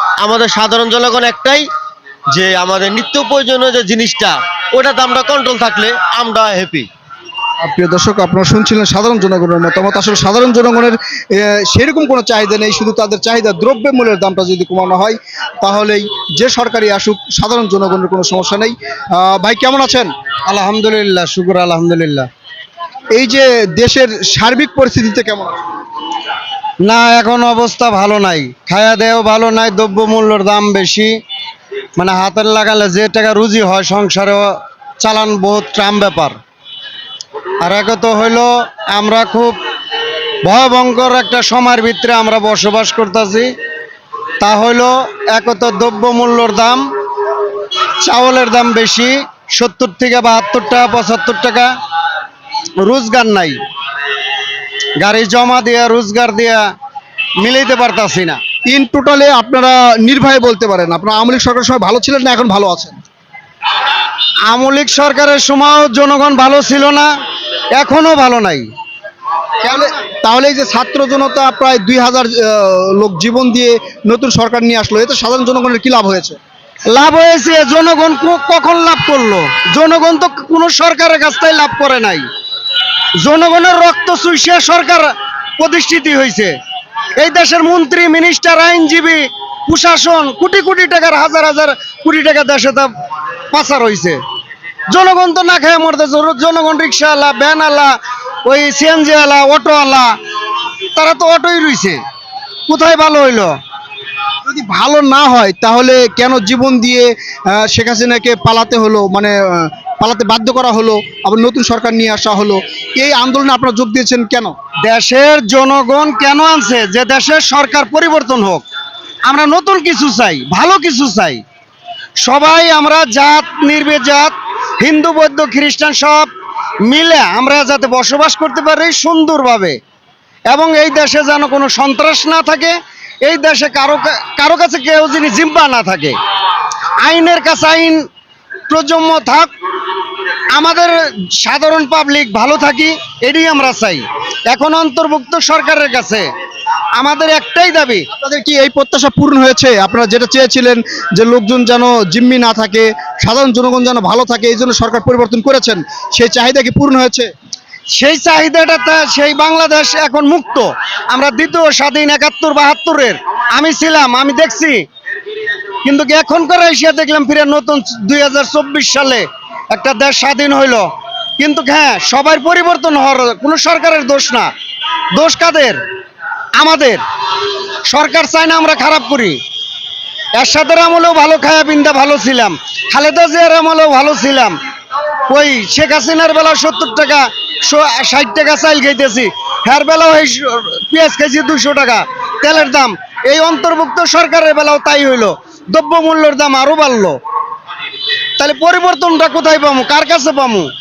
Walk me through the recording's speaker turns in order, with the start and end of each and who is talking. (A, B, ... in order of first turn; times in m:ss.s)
0:00.2-0:01.6 A
0:02.3-0:06.9 A
0:07.6-0:20.1 B
0:20.5-0:22.3 C
0:23.1-0:25.6 B
0:26.8-0:31.1 C
0:32.0-0:34.5 C
0:35.0-0:36.4 C
0:37.6-0:39.6 C
0:40.4-0:43.5 C
0:44.4-0:46.8 C
0:48.0-0:51.7 C
0:52.8-0:53.6 C
0:55.0-0:56.6 C
0:57.4-0:58.4 C
0:58.7-1:03.0 B
1:04.5-1:07.1 C
1:07.7-1:08.7 C
1:09.6-1:16.4 B
1:16.9-1:22.2 C
1:23.2-1:26.5 C
1:27.2-1:32.9 C
1:33.5-1:34.2 C
1:34.9-1:37.9 C
1:38.5-1:40.1 C
1:41.0-1:42.0 C
1:42.7-1:43.5 C
1:44.5-1:54.6 B
1:54.8-1:58.6 C
1:59.3-2:01.4 C
2:02.2-2:06.3 C
2:06.8-2:09.8 C
2:10.5-2:16.2 C
2:17.0-2:18.0 C
2:18.7-2:19.5 C
2:20.5-2:26.3 C
2:27.0-2:28.0 C
2:28.2-2:37.3 B
2:37.9-2:44.8 C
2:45.8-2:50.9 C
2:51.4-2:54.5 C
2:55.2-2:55.8 C
2:56.6-2:57.0 C
2:57.9-2:59.4 C
3:00.4-3:04.6 C
3:05.3-3:17.2 C
3:18.4-3:20.7 C